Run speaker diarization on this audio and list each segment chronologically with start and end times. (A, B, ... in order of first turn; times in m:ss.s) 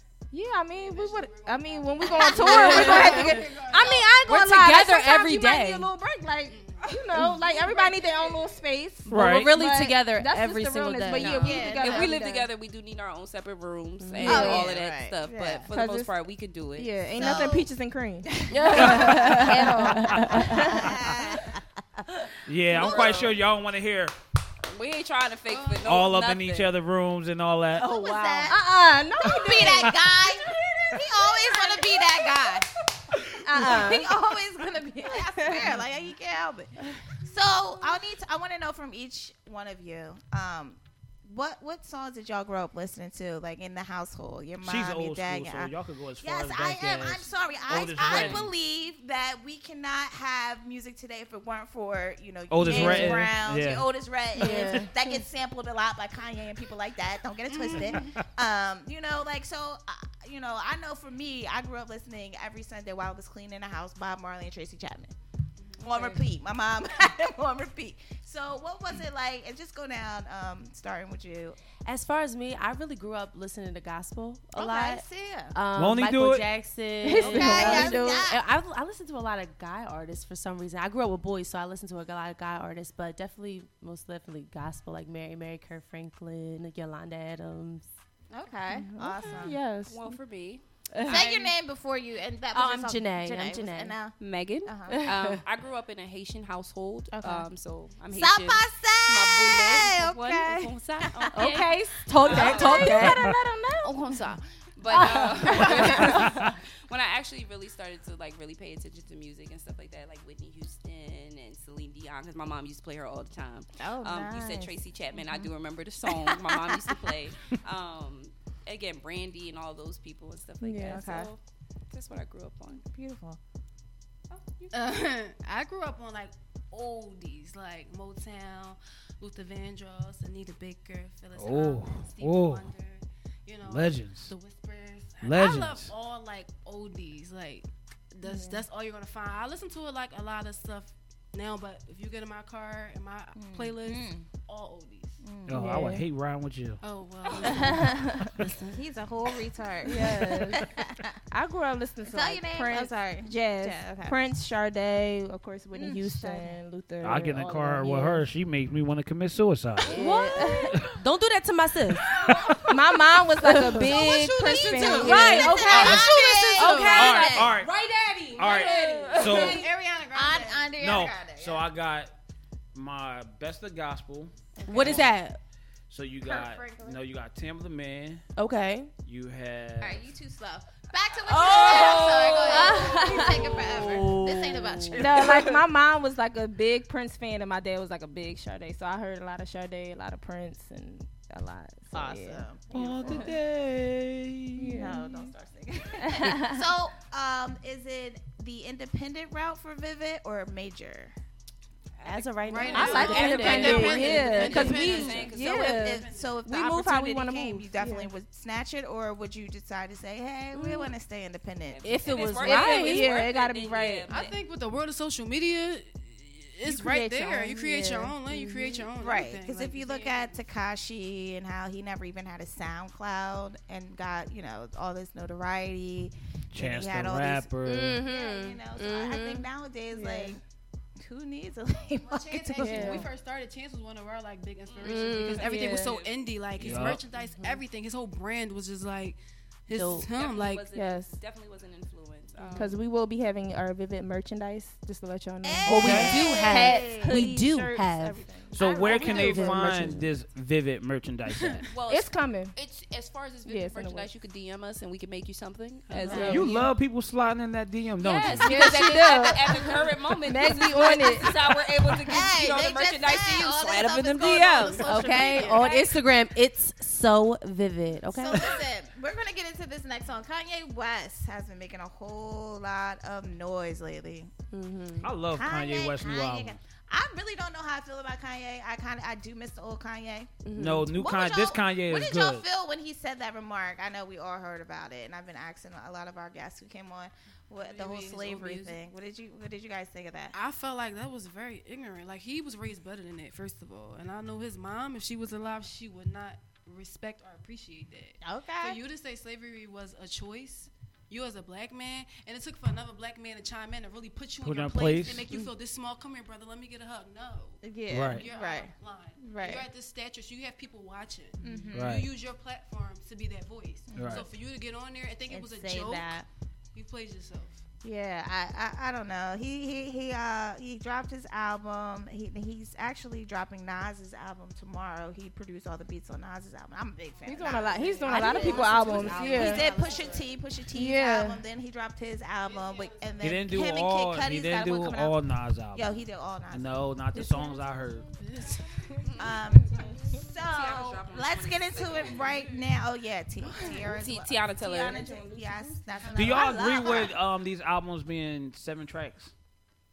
0:00.3-0:12.5 A
0:00.7-0:04.3 B
0:02.1-0:03.2 C
0:02.4-0:03.4 D
0:04.2-0:05.9 D
0:06.5-0:08.6 B
0:09.1-0:09.5 E
0:09.1-0:11.6 D
0:11.4-0:12.0 B
0:11.4-0:12.1 C
0:11.5-0:17.5 F
0:14.0-0:14.5 D
0:14.2-0:14.7 A
0:14.2-0:15.7 C
0:15.7-0:16.1 A
0:16.8-0:21.1 A
0:17.2-0:17.7 C
0:18.5-0:20.7 D
0:18.7-0:20.6 E
0:20.5-0:21.6 C
0:22.5-0:24.2 E
0:22.7-0:23.4 F
0:24.6-0:26.7 F
0:25.5-0:25.9 B
0:25.8-0:27.9 E
0:27.8-0:28.6 D
0:27.8-0:28.6 C
0:28.5-0:30.0 A
0:29.2-0:32.7 C
0:33.4-0:34.2 A
0:33.6-1:05.1 C
0:35.1-0:35.7 A
0:44.6-0:48.5 E
0:48.1-0:48.4 B
0:52.5-0:53.9 E
0:52.7-0:53.2 A
0:54.4-0:55.0 A
0:54.4-0:54.8 E
0:57.5-0:58.2 B
0:57.8-0:58.1 E
1:05.6-1:06.2 B
1:05.8-1:11.6 C
1:11.8-1:27.9 D
1:14.5-1:15.5 C
1:15.8-1:16.5 E
1:17.0-1:18.2 A
1:17.2-1:18.4 C
1:28.3-1:29.6 C
1:28.7-1:30.2 A
1:29.9-1:31.2 F
1:30.9-1:31.5 D
1:31.1-1:35.0 C
1:32.5-1:34.0 D
1:34.2-1:43.1 F
1:35.1-1:35.4 D
1:38.1-1:41.3 C
1:41.3-1:43.3 D
1:41.4-1:44.0 A
1:43.8-1:44.4 C
1:44.0-2:02.8 F
1:44.9-1:46.2 D
1:45.4-1:46.3 A
1:45.6-1:46.0 C
1:53.8-1:55.5 C
1:56.3-1:56.9 C
2:00.6-2:01.0 A
2:00.9-2:01.3 C
2:02.7-2:03.4 C
2:04.3-2:04.7 F
2:04.7-2:25.2 B
2:11.4-2:12.7 E
2:13.6-2:14.3 E
2:15.2-2:15.9 E
2:18.2-2:18.6 A
2:23.4-2:24.3 C
2:25.2-2:25.7 C
2:25.5-2:26.8 E
2:25.5-2:26.0 A
2:26.8-2:28.1 B
2:27.5-2:28.3 A
2:28.4-2:28.8 D
2:28.7-2:31.2 C
2:29.8-2:30.7 A
2:31.3-2:38.2 A
2:32.1-2:34.2 C
2:35.7-2:36.6 C
2:37.0-2:40.0 E
2:39.9-2:40.9 A
2:39.9-2:42.1 D
2:42.3-2:42.6 B
2:42.7-2:45.9 A
2:43.4-2:44.0 D
2:43.9-2:50.7 B
2:44.4-2:47.5 C
2:44.7-2:47.2 D
2:45.7-2:46.1 E
2:46.6-2:47.1 A
2:46.9-2:47.7 E
2:48.4-2:49.7 E
2:48.5-2:51.7 C
2:50.8-2:52.1 E
2:52.7-2:55.1 E
2:54.6-2:55.0 C
2:54.7-2:55.4 D
2:55.9-2:58.3 E
2:56.2-2:57.0 C
2:58.4-2:58.9 D
2:59.0-3:00.1 E
2:59.8-3:05.4 C
3:01.2-3:03.3 F
3:02.5-3:03.6 A
3:02.7-3:04.8 D
3:04.9-3:13.3 A
3:11.9-3:13.3 C
3:12.7-3:14.9 E
3:14.6-3:15.3 A
3:14.8-3:21.1 C
3:16.0-3:16.6 A
3:22.0-3:25.8 F
3:22.0-3:24.8 D
3:22.5-3:26.4 B
3:22.8-3:28.1 A
3:25.2-3:31.9 C
3:30.6-3:30.9 D
3:31.7-3:34.4 F
3:31.8-3:33.1 D
3:32.2-3:34.3 A
3:34.1-3:40.4 B
3:36.6-3:38.2 A
3:38.3-3:38.8 D
3:39.0-3:50.4 C
3:46.5-3:48.0 E
3:47.6-3:49.5 D
3:49.9-3:50.4 A
3:51.0-3:53.1 C
3:52.0-4:00.7 B
3:52.6-3:53.1 A
3:54.7-3:56.2 F
3:54.8-3:55.5 D
3:55.4-3:55.9 A
3:56.6-3:57.0 E
3:57.2-3:57.6 D
3:59.7-4:00.1 D
4:00.1-4:02.8 F
4:00.7-4:01.2 A
4:02.6-4:09.9 A
4:05.4-4:07.3 C
4:05.6-4:08.3 D
4:05.7-4:06.2 E
4:08.5-4:11.6 E
4:08.7-4:09.3 B
4:08.9-4:10.1 D
4:11.3-4:11.7 B
4:11.7-4:16.7 F
4:11.9-4:12.5 A
4:13.5-4:14.1 A
4:15.9-4:16.6 B
4:16.0-4:16.5 A
4:16.3-4:18.7 E
4:18.0-4:26.0 F
4:18.4-4:19.6 A
4:18.4-4:18.8 B
4:19.6-4:19.8 B
4:20.2-4:21.4 A
4:22.1-4:25.7 C
4:24.6-4:25.7 B
4:24.8-4:28.6 D
4:28.1-4:34.3 C
4:34.5-4:35.1 D
4:35.0-4:36.6 E
4:35.4-4:40.3 C
4:40.4-4:40.9 D
4:40.6-4:42.5 E
4:40.9-4:50.4 C
4:47.6-4:48.8 B
4:50.3-5:16.2 B
4:58.2-4:58.8 C
5:04.4-5:05.3 E
5:07.6-5:09.7 C
5:07.9-5:08.2 E
5:11.4-5:11.9 C
5:11.7-5:12.1 E
5:13.9-5:14.3 C
5:14.0-5:14.3 E
5:15.3-5:16.3 C
5:16.7-5:17.6 B
5:17.8-5:35.2 C
5:27.3-5:29.7 A
5:27.3-5:30.4 B
5:28.1-5:28.8 D
5:29.2-5:29.6 F
5:30.7-5:31.4 A
5:32.4-5:33.6 B
5:33.2-5:38.1 E
5:35.7-5:36.8 C
5:37.2-5:37.5 B
5:38.2-5:40.1 B
5:39.2-5:47.2 C
5:40.4-5:42.4 F
5:43.5-5:43.8 B
5:43.8-5:45.1 F
5:44.7-5:46.2 A
5:46.0-5:47.0 B
5:46.1-5:49.3 E